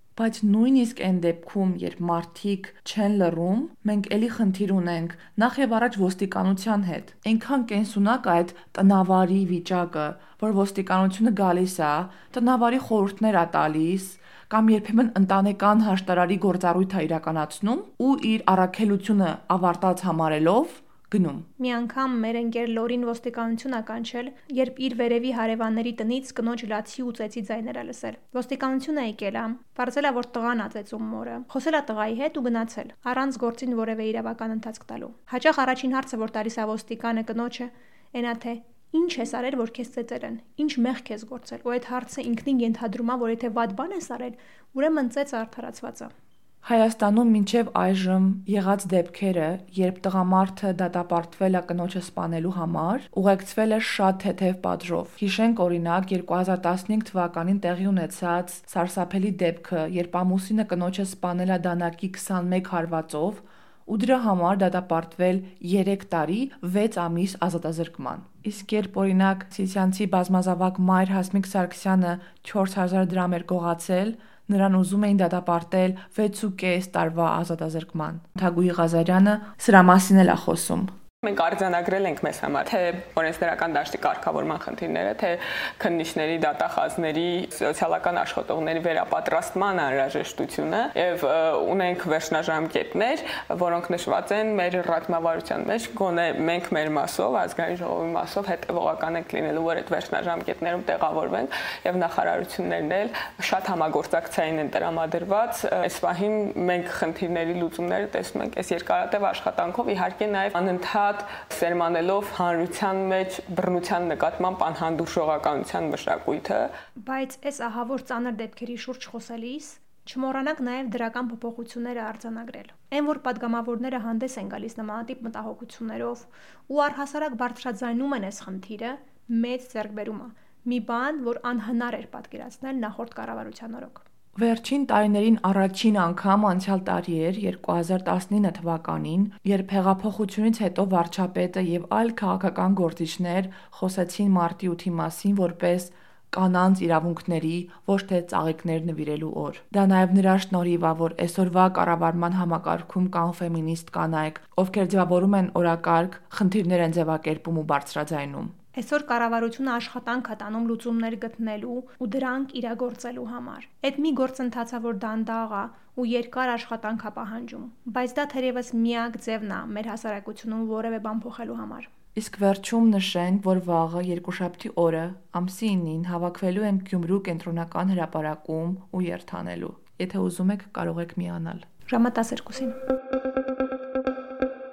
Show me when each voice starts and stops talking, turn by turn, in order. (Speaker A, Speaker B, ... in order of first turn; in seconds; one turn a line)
Speaker A: 0.2-21.5
Speaker B: 21.6-46.1
Speaker A: 46.6-80.9
Speaker C: 81.2-116.7
Speaker B: 117.0-134.0
Speaker A: 134.4-158.6
Speaker B: 158.8-171.9
Speaker A: 172.2-181.7
Speaker B: 181.9-182.8